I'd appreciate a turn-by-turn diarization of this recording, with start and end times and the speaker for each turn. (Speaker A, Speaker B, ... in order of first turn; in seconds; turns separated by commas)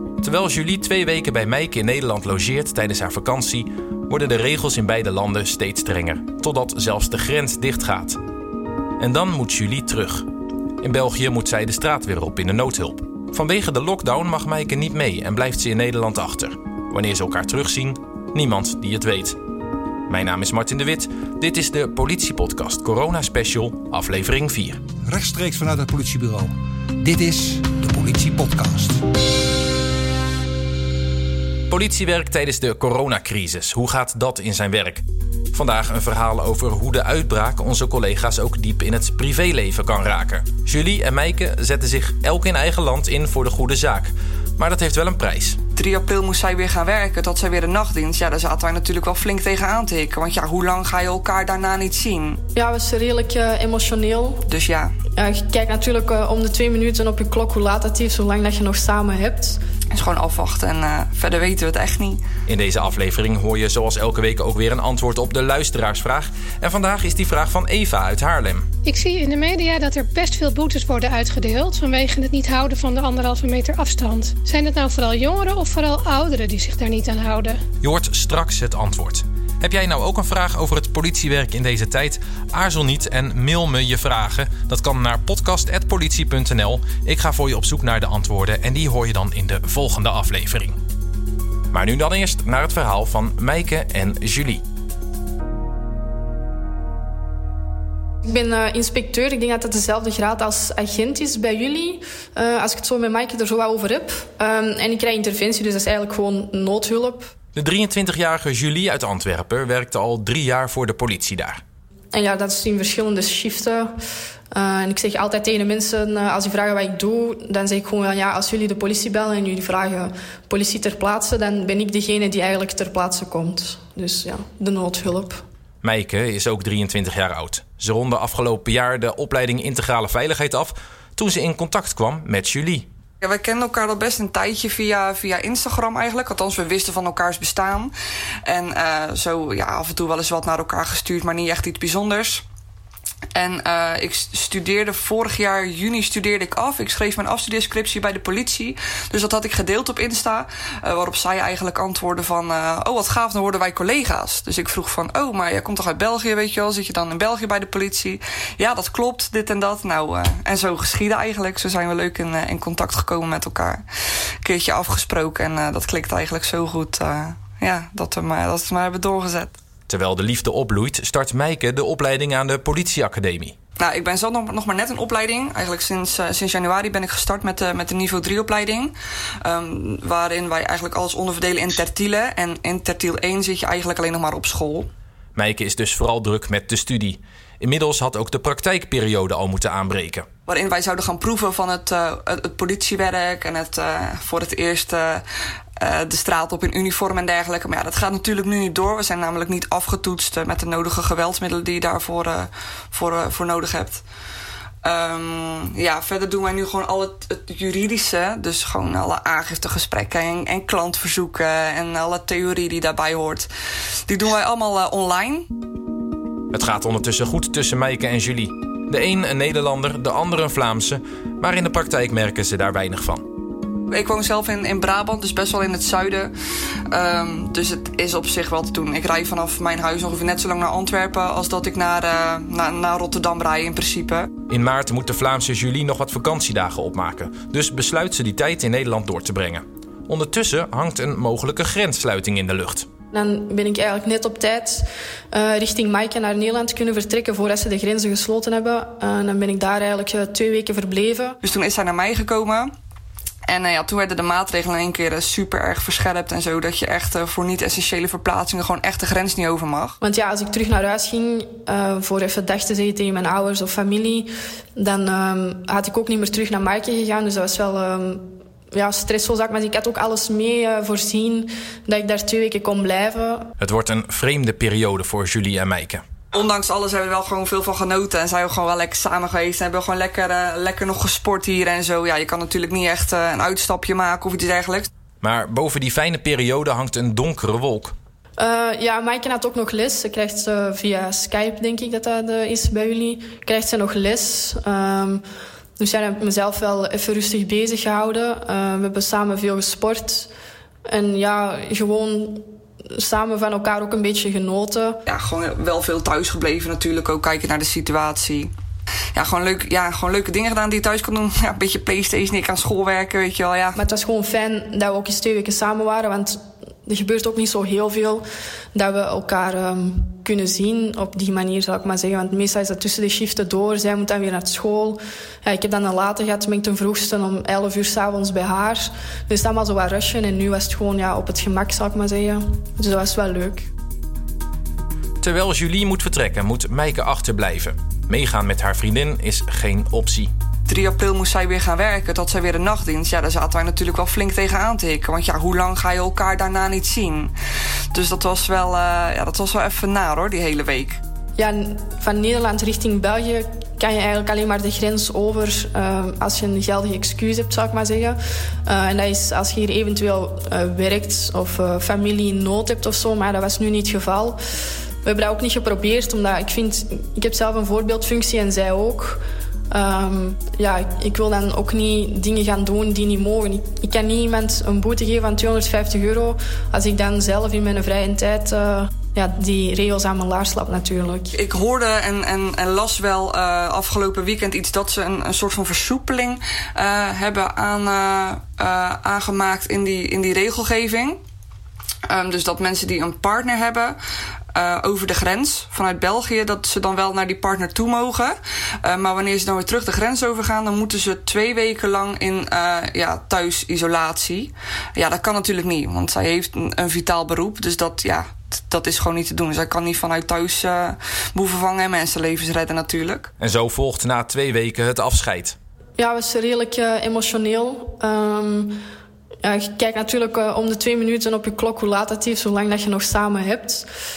Speaker A: 0.2-8.2, Speaker A: 9.0-10.2, Speaker A: 10.8-19.4, Speaker A: 20.1-24.8, Speaker B: 25.1-26.4, Speaker B: 27.0-28.9, Speaker A: 31.7-35.0, Speaker A: 35.5-45.6, Speaker C: 45.8-52.4, Speaker D: 52.5-54.4, Speaker C: 54.5-54.9, Speaker D: 55.1-59.6, Speaker C: 59.9-62.2, Speaker A: 62.5-68.6, Speaker E: 68.8-77.6, Speaker A: 77.8-90.8, Speaker A: 91.7-94.6, Speaker D: 98.2-107.3, Speaker A: 107.5-111.6, Speaker D: 112.1-113.9, Speaker D: 114.5-125.4, Speaker A: 125.8-132.9, Speaker C: 133.2-137.9, Speaker C: 138.4-142.4, Speaker C: 143.3-163.8, Speaker C: 164.4-169.5, Speaker A: 169.9-173.5, Speaker C: 173.8-178.9, Speaker C: 179.4-184.9, Speaker A: 185.3-190.2, Speaker C: 190.5-195.2, Speaker C: 195.8-204.0, Speaker C: 204.8-213.5, Speaker C: 214.1-215.5, Speaker A: 216.5-223.2, Speaker C: 223.9-226.3, Speaker C: 226.9-234.3, Speaker A: 234.5-242.8, Speaker D: 243.1-251.4, Speaker C: 251.4-252.7, Speaker C: 253.5-260.0, Speaker D: 260.0-273.5, Speaker A: 273.6-276.0, Speaker C: 276.3-284.9, Speaker A: 285.2-287.9, Speaker D: 288.4-295.2, Speaker D: 295.8-300.3, Speaker D: 300.9-305.0, Speaker C: 305.1-308.5, Speaker C: 309.1-313.8, Speaker D: 313.7-333.7, Speaker A: 335.2-340.3, Speaker C: 340.7-347.3, Speaker C: 347.9-351.0, Speaker D: 351.4-364.4, Speaker D: 365.0-381.3, Speaker C: 381.3-391.2, Speaker C: 392.1-394.0, Speaker C: 394.5-413.3, Speaker A: 413.4-415.5, Speaker D: 416.0-418.8, Speaker D: 419.4-423.9